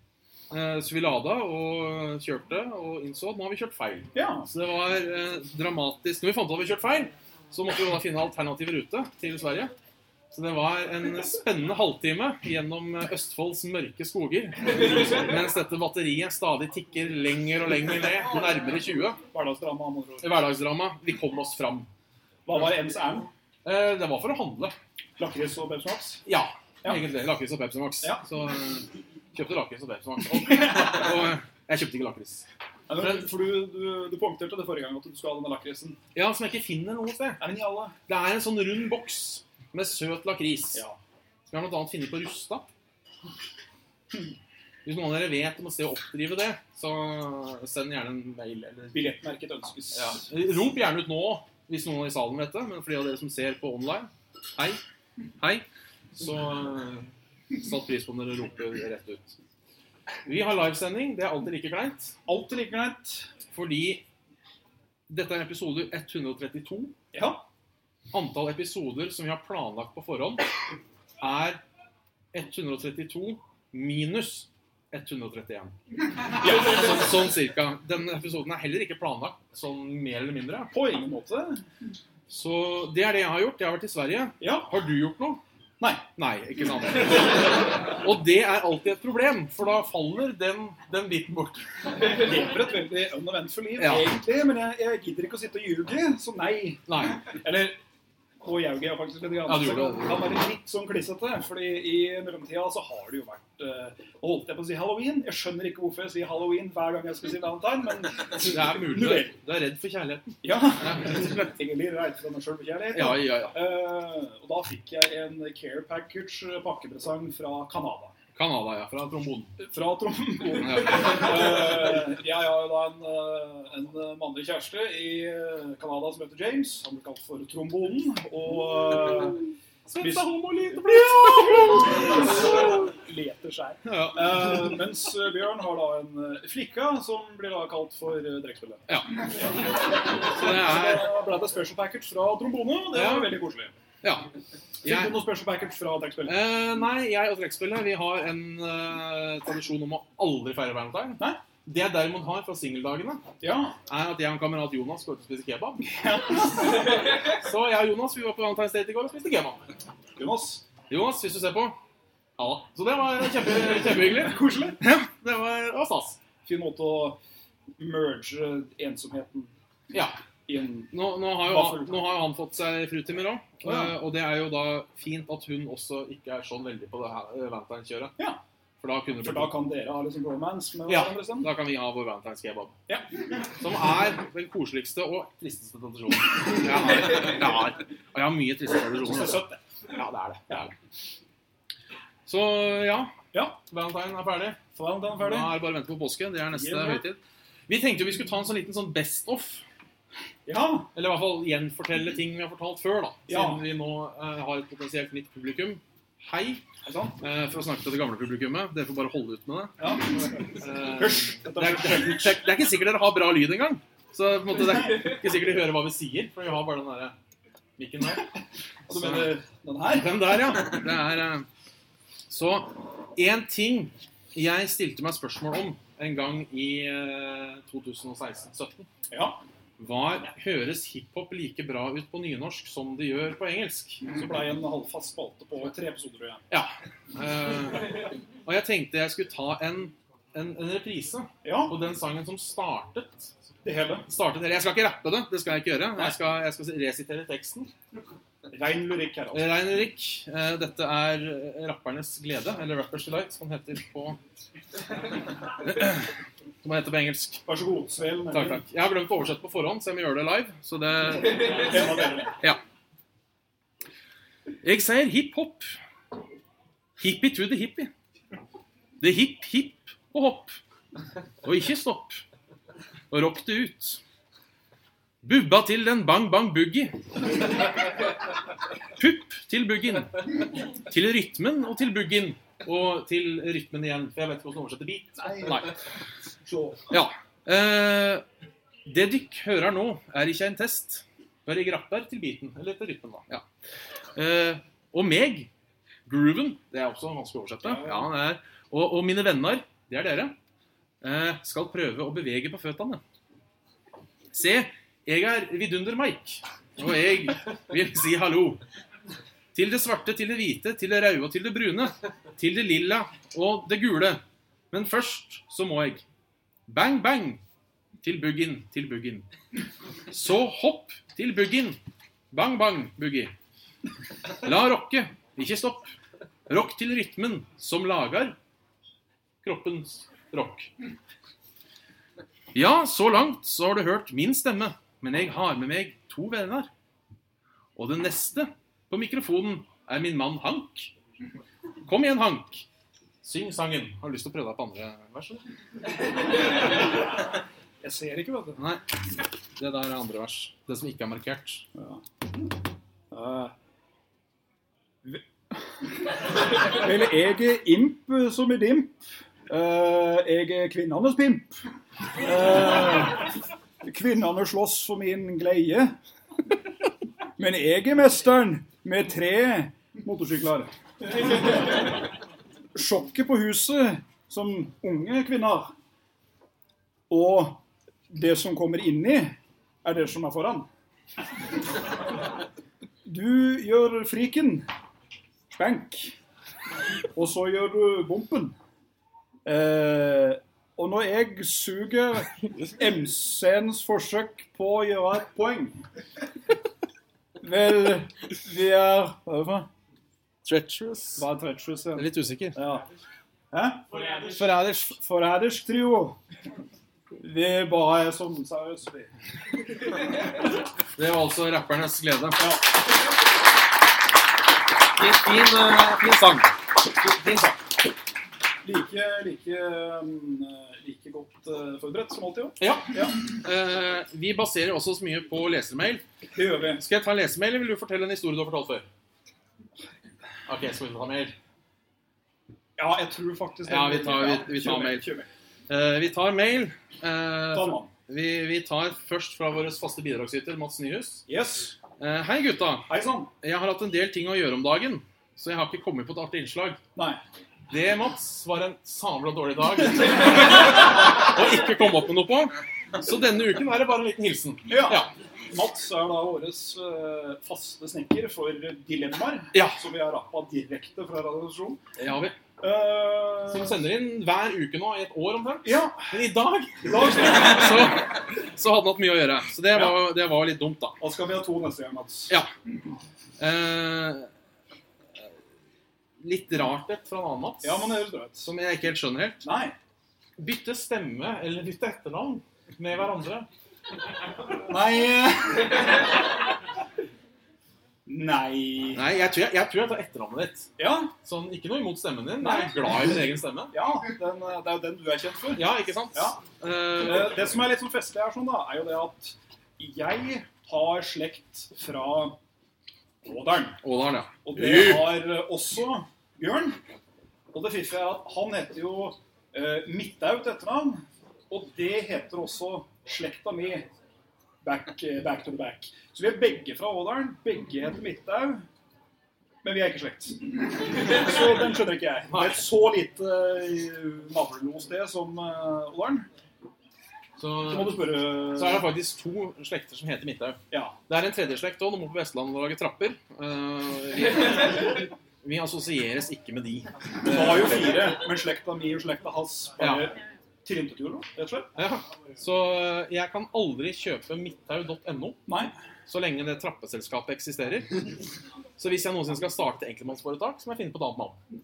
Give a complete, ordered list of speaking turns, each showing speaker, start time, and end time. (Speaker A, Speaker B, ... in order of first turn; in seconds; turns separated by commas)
Speaker A: 0.5-9.7, Speaker B: 4.1-4.5, Speaker A: 10.3-19.2, Speaker B: 19.3-20.3, Speaker A: 20.2-21.9, Speaker B: 22.4-23.3, Speaker A: 23.6-24.7, Speaker B: 25.2-26.2, Speaker A: 26.2-32.5, Speaker B: 30.5-31.0, Speaker B: 32.9-36.0, Speaker A: 36.1-37.5, Speaker B: 37.4-37.9, Speaker A: 38.1-40.8, Speaker B: 40.7-41.0, Speaker A: 41.5-42.7, Speaker A: 44.8-49.1, Speaker B: 48.9-50.3, Speaker A: 49.9-54.8, Speaker A: 55.4-59.4, Speaker A: 60.2-62.2, Speaker B: 62.2-63.3, Speaker A: 63.5-64.0, Speaker A: 65.1-66.9, Speaker B: 67.1-67.4, Speaker A: 68.1-70.5, Speaker A: 71.2-71.6, Speaker A: 72.3-75.7, Speaker B: 76.4-77.1, Speaker A: 76.4-80.7, Speaker B: 80.7-81.6, Speaker A: 82.3-85.4, Speaker B: 84.4-84.7, Speaker A: 86.2-91.7, Speaker B: 92.1-97.8, Speaker A: 93.8-94.1, Speaker A: 96.9-97.2, Speaker B: 98.4-109.3, Speaker A: 99.5-100.3, Speaker A: 108.4-111.5, Speaker B: 110.4-118.1, Speaker A: 112.9-113.6, Speaker A: 118.3-119.5, Speaker B: 119.6-129.5, Speaker A: 120.5-121.3, Speaker A: 129.9-132.3, Speaker B: 130.0-138.8, Speaker A: 133.8-134.9, Speaker A: 138.9-139.2, Speaker A: 140.3-141.1, Speaker B: 140.3-143.7, Speaker A: 142.9-143.4, Speaker A: 144.0-144.3, Speaker A: 144.8-145.2, Speaker B: 144.8-146.4, Speaker A: 146.2-153.3, Speaker B: 153.4-153.8, Speaker A: 153.9-155.9, Speaker B: 155.8-156.9, Speaker A: 157.2-159.7, Speaker B: 160.2-160.6, Speaker A: 160.9-161.8, Speaker A: 162.4-166.2, Speaker B: 163.9-164.8, Speaker B: 166.4-167.2, Speaker B: 167.8-169.5, Speaker A: 169.9-170.2, Speaker B: 170.5-172.0, Speaker A: 170.9-178.1, Speaker B: 173.6-173.9, Speaker A: 178.8-179.6, Speaker B: 179.2-181.5, Speaker A: 180.9-182.8, Speaker A: 183.6-190.7, Speaker B: 189.0-189.6, Speaker A: 192.2-193.1, Speaker B: 193.3-193.6, Speaker A: 193.7-194.6, Speaker B: 194.7-195.5, Speaker A: 195.2-199.6, Speaker B: 196.5-197.0, Speaker B: 200.4-200.9, Speaker A: 200.9-206.6, Speaker B: 203.3-203.6, Speaker B: 206.8-207.2, Speaker A: 207.2-209.8, Speaker B: 209.8-210.4, Speaker A: 210.5-217.1, Speaker B: 211.0-212.4, Speaker A: 217.8-218.3, Speaker A: 218.9-219.4, Speaker B: 218.9-220.3, Speaker A: 219.9-221.5, Speaker A: 222.3-228.9, Speaker B: 229.1-229.4, Speaker A: 229.8-234.1, Speaker B: 234.1-236.4, Speaker A: 236.5-243.3, Speaker B: 241.4-241.8, Speaker B: 243.6-244.1, Speaker A: 244.1-247.7, Speaker B: 248.5-249.5, Speaker A: 249.3-254.2, Speaker A: 255.6-256.1, Speaker A: 256.6-257.4, Speaker B: 257.4-258.6, Speaker A: 258.3-261.9, Speaker B: 261.4-262.3, Speaker A: 264.6-265.7, Speaker A: 267.0-267.9, Speaker A: 269.0-270.6, Speaker A: 271.4-272.2, Speaker A: 273.1-274.0, Speaker A: 275.2-277.0, Speaker A: 279.0-280.2, Speaker A: 280.8-285.8, Speaker B: 285.2-285.7, Speaker B: 286.4-286.9, Speaker A: 286.9-288.2, Speaker A: 288.9-293.4, Speaker A: 294.1-295.5, Speaker A: 296.1-300.3, Speaker B: 297.6-298.1, Speaker A: 301.0-303.0, Speaker A: 304.3-308.6, Speaker A: 309.5-316.0, Speaker A: 316.7-317.4, Speaker A: 318.0-319.2, Speaker A: 320.1-321.8, Speaker A: 322.3-323.3, Speaker A: 324.4-325.9, Speaker A: 326.5-328.4, Speaker A: 329.4-330.7, Speaker A: 332.5-336.7, Speaker A: 337.8-340.9, Speaker A: 341.8-342.6, Speaker A: 343.2-345.4, Speaker B: 347.8-348.6, Speaker A: 348.6-348.8, Speaker A: 349.6-351.6, Speaker B: 351.7-352.0, Speaker B: 353.1-353.5, Speaker B: 356.6-359.0, Speaker B: 359.5-361.6, Speaker B: 362.2-363.3, Speaker B: 363.8-366.0, Speaker B: 367.4-371.9, Speaker B: 372.7-375.7, Speaker B: 377.1-380.7, Speaker B: 383.0-384.7, Speaker B: 385.5-386.1, Speaker B: 387.1-388.5, Speaker B: 389.4-395.8, Speaker B: 397.4-399.7, Speaker A: 400.4-401.3, Speaker B: 401.2-402.9, Speaker A: 401.9-402.6, Speaker B: 403.5-406.2, Speaker A: 404.1-405.0, Speaker B: 407.1-409.1, Speaker A: 410.9-412.5, Speaker A: 414.9-417.6, Speaker B: 418.6-423.1, Speaker A: 422.6-426.0, Speaker B: 426.3-426.8, Speaker A: 426.8-428.9, Speaker A: 430.5-431.3, Speaker B: 432.8-435.3, Speaker A: 433.7-435.1, Speaker A: 435.7-441.2, Speaker B: 437.5-437.9, Speaker B: 441.3-441.8, Speaker A: 442.0-442.9, Speaker B: 442.9-443.3, Speaker A: 443.4-446.8, Speaker B: 446.9-447.2, Speaker A: 447.7-455.1, Speaker B: 454.6-461.8, Speaker A: 459.5-459.8, Speaker A: 462.0-462.4, Speaker B: 462.6-463.8, Speaker A: 463.5-471.0, Speaker B: 465.6-466.1, Speaker B: 466.8-467.8, Speaker B: 469.7-470.0, Speaker B: 471.0-472.3, Speaker A: 473.4-474.3, Speaker A: 476.2-479.5, Speaker B: 477.6-478.5, Speaker B: 479.4-479.7, Speaker A: 480.4-483.5, Speaker B: 484.7-486.0, Speaker B: 488.1-489.0, Speaker A: 488.9-490.7, Speaker B: 490.8-491.1, Speaker A: 491.2-493.7, Speaker B: 492.4-493.1, Speaker B: 493.7-496.4, Speaker A: 495.5-497.4, Speaker B: 496.9-502.4, Speaker B: 503.2-503.8, Speaker A: 503.8-505.3, Speaker B: 504.4-506.8, Speaker B: 507.5-513.9, Speaker B: 514.6-518.6, Speaker B: 519.6-526.3, Speaker A: 522.3-522.6, Speaker A: 527.4-537.9, Speaker B: 527.6-528.9, Speaker B: 530.7-530.9, Speaker B: 537.2-541.7, Speaker A: 539.8-540.0, Speaker A: 541.7-545.5, Speaker B: 545.5-545.7, Speaker A: 546.1-548.0, Speaker A: 548.8-551.4